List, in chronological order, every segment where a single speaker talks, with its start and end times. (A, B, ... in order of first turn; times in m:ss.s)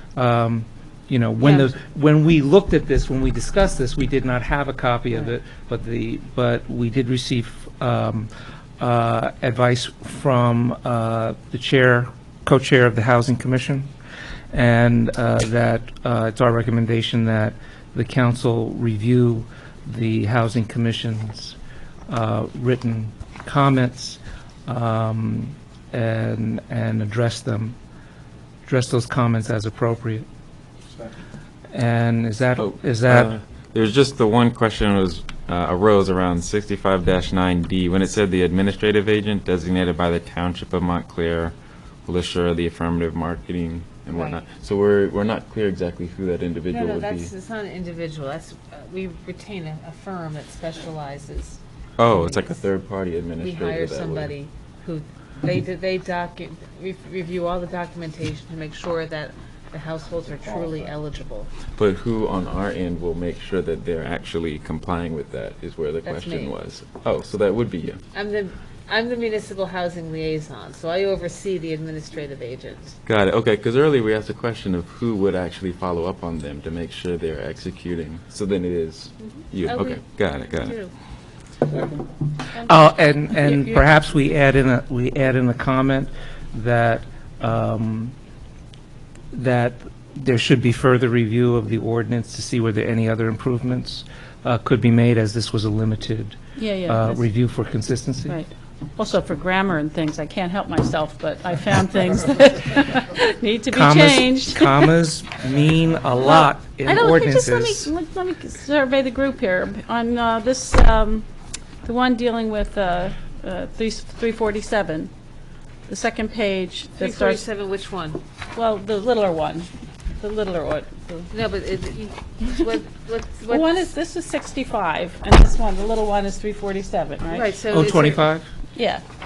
0:00.2-0:13.9 A
0:01.4-0:01.7 B
0:14.5-0:21.6 A
0:22.1-0:27.8 A
0:28.6-0:30.2 A
0:31.7-0:33.3 A
0:32.6-0:41.6 C
0:42.1-0:47.3 C
0:44.1-0:44.4 B
0:46.7-0:51.6 B
0:52.0-0:54.3 C
0:52.1-0:52.6 B
0:53.4-1:01.5 B
1:01.8-1:08.0 C
1:06.0-1:06.6 B
1:08.1-1:13.0 B
1:13.1-1:20.8 C
1:19.2-1:20.9 B
1:22.6-1:28.2 A
1:23.5-1:23.8 D
1:29.3-1:38.4 A
1:36.6-1:37.2 D
1:38.3-1:44.9 D
1:43.7-1:47.9 A
1:46.2-1:51.3 D
1:51.8-1:55.1 D
1:55.9-1:57.4 D
1:57.0-1:58.2 B
1:58.6-1:59.7 D
2:00.2-2:01.3 D
2:01.3-2:03.9 B
2:03.4-2:07.5 D
2:07.3-2:08.3 B
2:07.7-2:08.5 A
2:08.8-2:09.0 D